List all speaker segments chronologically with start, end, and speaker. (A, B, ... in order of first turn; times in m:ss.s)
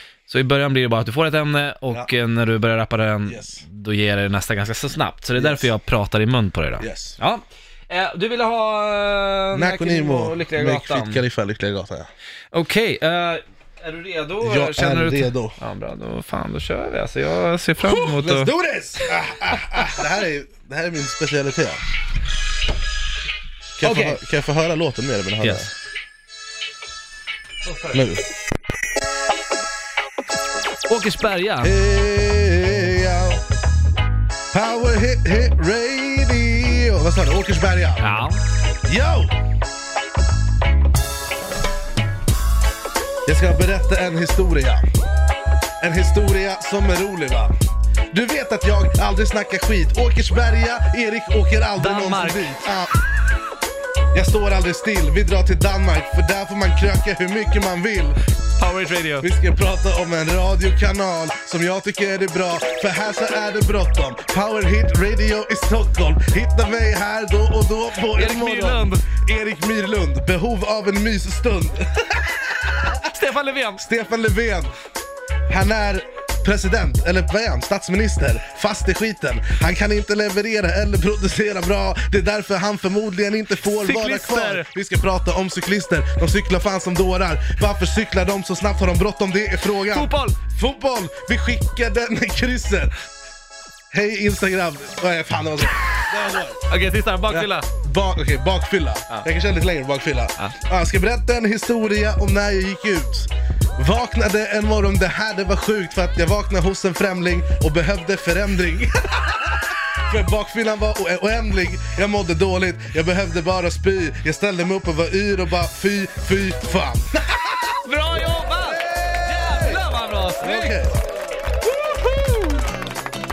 0:00.3-0:11.2 A
0:03.2-0:03.6 B
0:05.4-0:05.7 B
0:06.8-0:07.2 B
0:09.5-0:12.1 B
0:12.5-0:18.5 A
0:14.4-0:15.6 B
0:17.8-0:21.8 B
0:19.8-0:20.0 A
0:23.8-0:25.7 B
0:23.8-0:24.2 A
0:25.4-0:25.6 A
0:27.6-0:28.1 A
0:27.9-0:28.2 B
0:30.9-0:31.8 A
0:31.6-0:33.4 B
0:34.5-0:38.3 B
0:38.0-0:38.4 A
0:38.9-0:39.3 B
0:43.2-0:44.8 B
0:45.8-0:47.5 B
0:48.1-0:53.0 B
0:51.8-0:52.7 A
0:54.1-0:58.2 B
0:58.6-0:59.3 A
0:59.2-1:13.1 B
1:08.2-1:09.0 A
1:13.0-1:13.8 A
1:13.8-1:14.7 B
1:15.5-1:32.9 B
1:23.6-1:24.7 A
1:29.9-1:30.4 A
1:33.9-1:36.6 B
1:36.7-1:37.7 A
1:37.3-1:57.5 B
1:57.7-2:00.8 A
1:58.7-1:59.8 B
2:00.4-2:01.0 B
2:01.7-2:02.6 A